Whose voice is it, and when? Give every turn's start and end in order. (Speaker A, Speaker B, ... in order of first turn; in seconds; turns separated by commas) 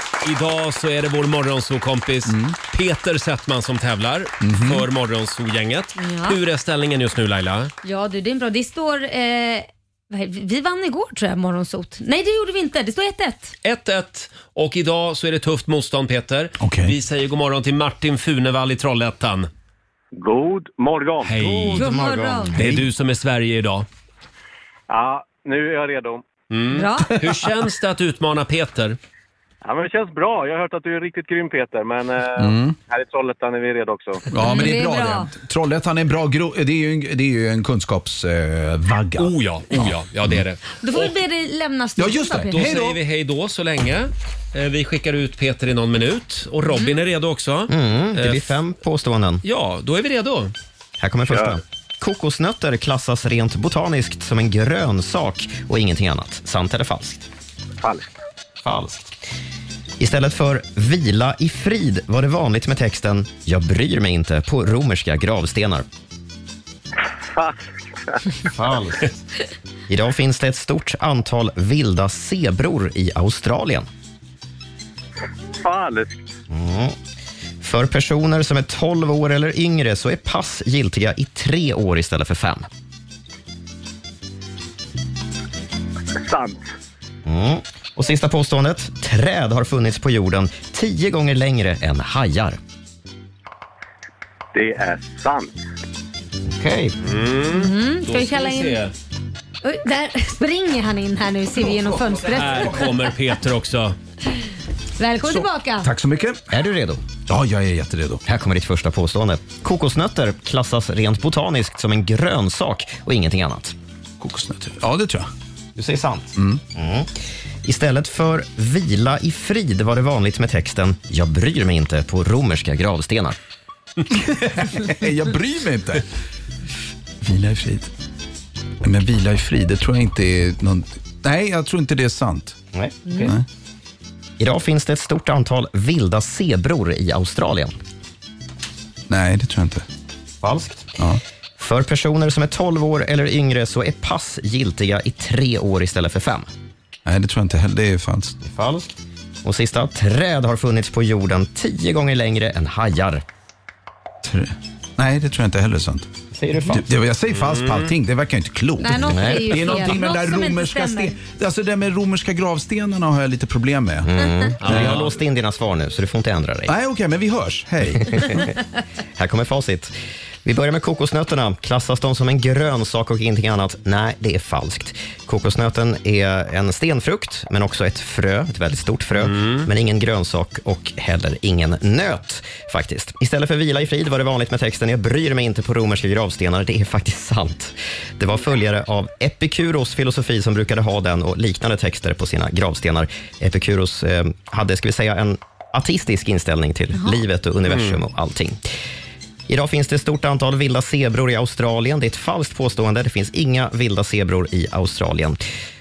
Speaker A: 0.2-7.7, Speaker B: 2.3-2.6, Speaker B: 4.4-4.8, Speaker C: 6.0-6.4, Speaker C: 7.8-13.6, Speaker A: 13.6-19.5, Speaker B: 16.6-17.0, Speaker D: 20.1-21.3, Speaker A: 21.2-21.9, Speaker E: 21.4-22.7, Speaker C: 21.8-22.6, Speaker B: 22.6-22.9, Speaker A: 22.6-23.9, Speaker D: 24.9-26.2, Speaker A: 26.5-29.0, Speaker C: 26.7-27.1, Speaker D: 29.6-34.2, Speaker B: 32.4-32.8, Speaker B: 34.3-40.4, Speaker C: 34.4-35.3, Speaker A: 39.2-41.1, Speaker C: 40.8-42.7, Speaker B: 42.0-43.0, Speaker A: 42.5-48.6, Speaker E: 47.7-49.4, Speaker A: 49.4-50.5, Speaker E: 51.0-57.3, Speaker D: 57.8-58.1, Speaker E: 58.6-59.2, Speaker E: 60.0-65.8, Speaker D: 67.2-68.2, Speaker E: 68.5-69.2, Speaker E: 69.9-73.9, Speaker D: 75.6-76.3, Speaker E: 76.5-77.0, Speaker E: 77.6-82.7, Speaker D: 86.2-86.7, Speaker E: 87.2-92.6, Speaker D: 94.5-95.6, Speaker E: 96.6-96.9, Speaker A: 97.0-98.9, Speaker C: 97.5-98.8, Speaker C: 99.6-103.1, Speaker B: 101.6-102.9, Speaker A: 102.3-104.0, Speaker C: 105.0-105.9, Speaker B: 105.2-106.5, Speaker E: 106.5-107.0, Speaker B: 107.3-108.2, Speaker E: 108.2-113.8, Speaker B: 114.2-115.3, Speaker E: 115.8-123.4, Speaker B: 124.1-126.1, Speaker B: 127.2-127.9, Speaker B: 128.8-132.6, Speaker E: 132.7-133.4, Speaker C: 133.1-133.3, Speaker B: 133.2-133.4, Speaker E: 134.4-137.8, Speaker B: 139.1-139.8, Speaker E: 140.4-146.5, Speaker B: 147.1-148.4, Speaker E: 148.4-153.2, Speaker B: 154.2-156.1, Speaker E: 156.3-156.9, Speaker B: 156.7-164.1, Speaker A: 157.3-157.9, Speaker C: 158.8-161.2, Speaker E: 159.0-159.7, Speaker E: 164.1-166.7, Speaker A: 164.6-165.1, Speaker B: 164.6-165.1, Speaker B: 166.7-168.4, Speaker E: 168.0-168.6, Speaker E: 169.2-169.9, Speaker E: 170.4-198.6, Speaker A: 179.2-179.7, Speaker A: 197.7-198.0, Speaker E: 199.5-205.4